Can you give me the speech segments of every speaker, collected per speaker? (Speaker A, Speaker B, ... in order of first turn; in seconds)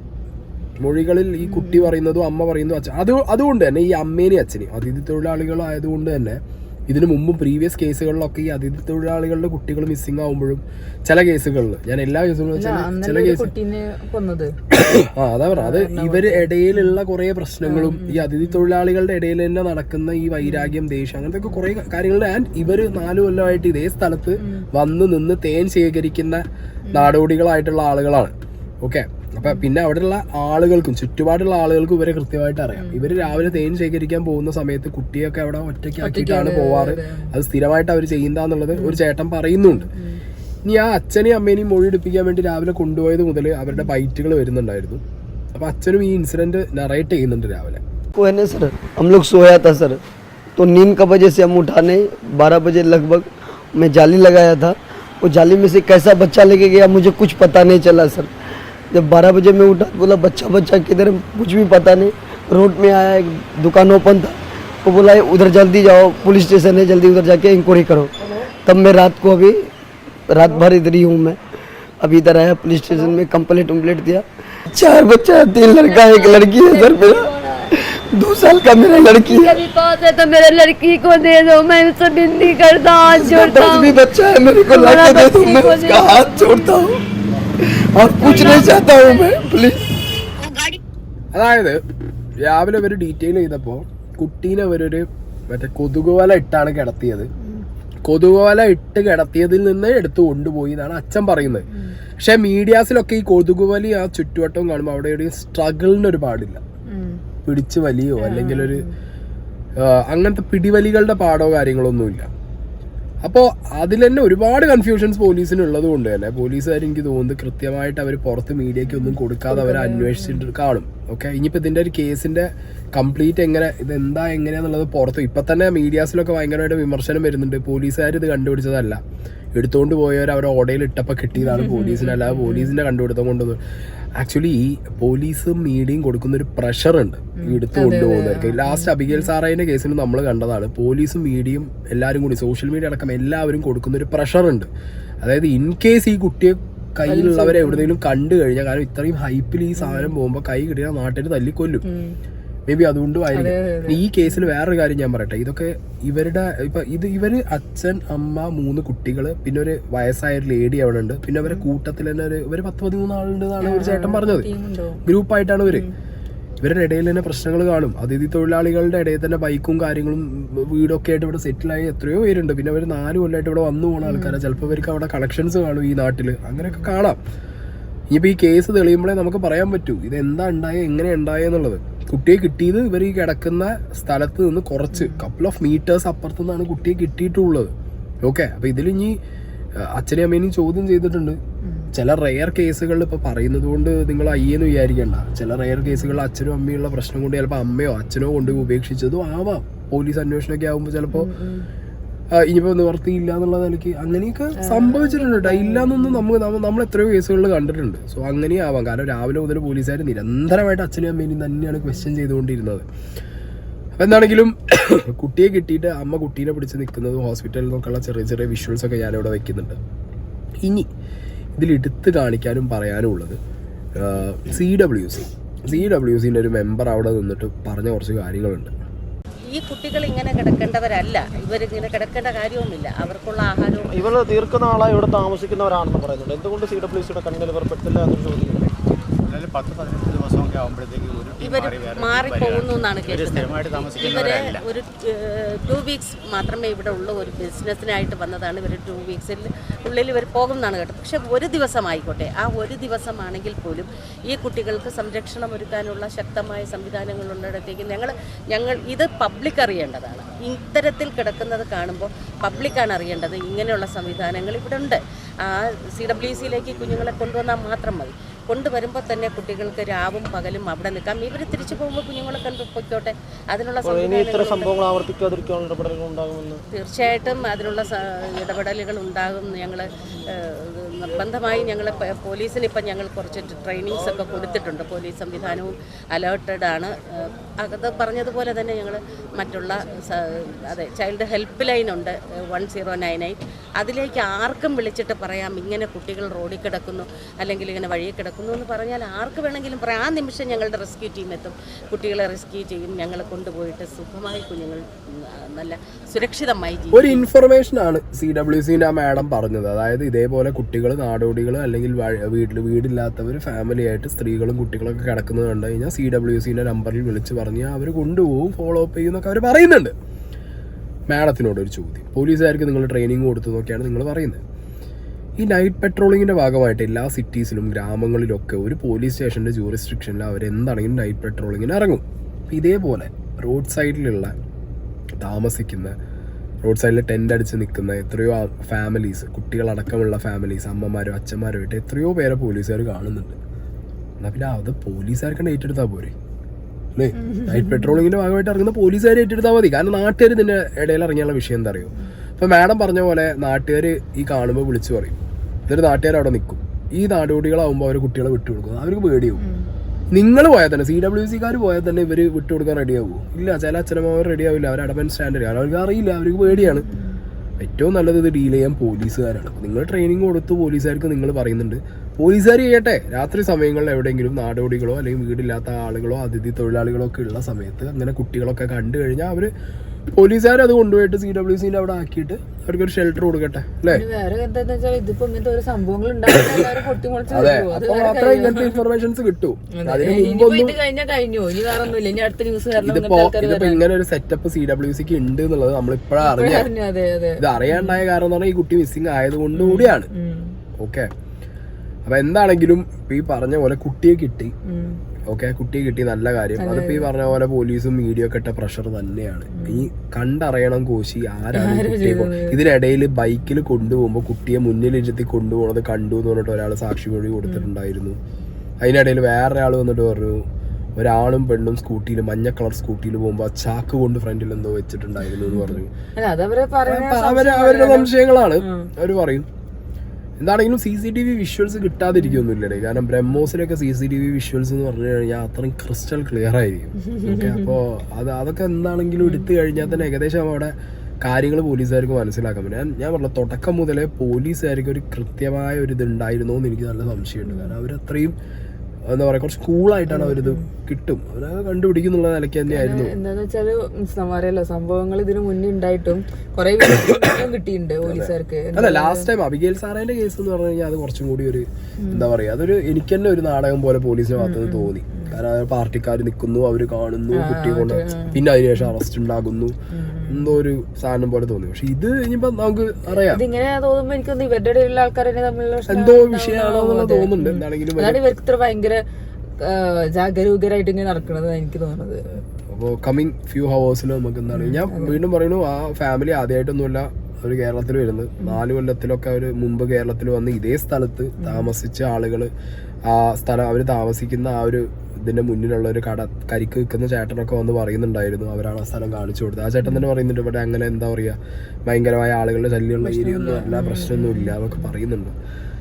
Speaker A: 0.8-13.5, 14.7-39.9, 40.6-45.0, 45.5-47.8, 91.3-91.8, 92.5-97.3, 98.0-101.7, 102.2-106.6, 107.5-108.8, 109.8-112.3, 113.2-129.0, 129.5-133.6, 134.2-144.7, 145.2-151.8, 152.7-164.5, 165.1-165.8, 166.6-177.2, 178.1-187.7, 188.2-189.2, 189.8-191.4, 191.9-201.3, 202.3-212.8, 214.0-219.8, 221.6-223.4, 224.0-228.7, 306.9-319.9, 321.1-324.4, 325.4-334.3, 335.2-335.9, 336.6-343.4, 344.2-346.1, 346.9-355.1, 355.7-359.4, 360.1-366.8, 367.6-379.5, 380.1-384.0, 387.3-390.8, 392.8-396.7, 397.4-400.1, 400.8-401.1, 402.1-404.5, 405.3-418.2, 418.8-420.4, 420.9-425.9, 426.9-429.5, 430.4-448.3, 449.1-453.1, 456.9-457.2, 458.0-469.7, 470.3-473.4, 475.9-478.2, 482.7-492.5, 493.1-505.3
Speaker B: 1.4-1.9, 12.5-14.5, 15.5-16.9, 17.6-18.3, 20.4-20.8, 24.4-24.6, 32.8-33.5, 36.0-37.3, 38.7-39.0, 39.7-40.2, 75.9-77.6, 88.2-88.5, 101.7-102.0, 106.9-107.2, 108.2-108.9, 118.9-120.5, 131.4-132.7, 137.4-139.3, 147.1-147.9, 149.8-150.1, 151.8-152.2, 153.3-154.4, 163.6-165.0, 165.7-165.9, 174.0-174.8, 184.9-185.2, 201.1-201.7, 204.6-206.2, 347.2-348.0, 359.4-359.7, 366.5-367.2, 383.9-388.8, 389.7-393.8, 396.2-398.0, 399.5-400.6, 404.6-405.0, 406.6-407.1, 409.5-409.9, 411.5-412.6, 425.5-428.9, 432.1-432.4, 437.0-437.7, 439.2-440.0, 447.4-447.7, 450.1-450.6, 452.7-459.3, 462.0-462.3, 464.4-465.4, 467.3-468.4, 469.9-470.5, 473.2-479.0, 479.6-482.4, 484.5-485.2, 491.4-491.7, 503.0-504.9
Speaker C: 48.1-50.0, 50.6-58.3, 58.9-68.1, 68.6-69.6, 70.3-71.4, 72.0-79.7, 82.4-87.0, 87.6-89.8
Speaker D: 79.0-83.6, 85.0-86.2
Speaker E: 229.5-234.0, 241.4-274.7, 276.7-307.3
Speaker F: 233.9-238.7, 273.8-276.6
Speaker G: 239.3-241.6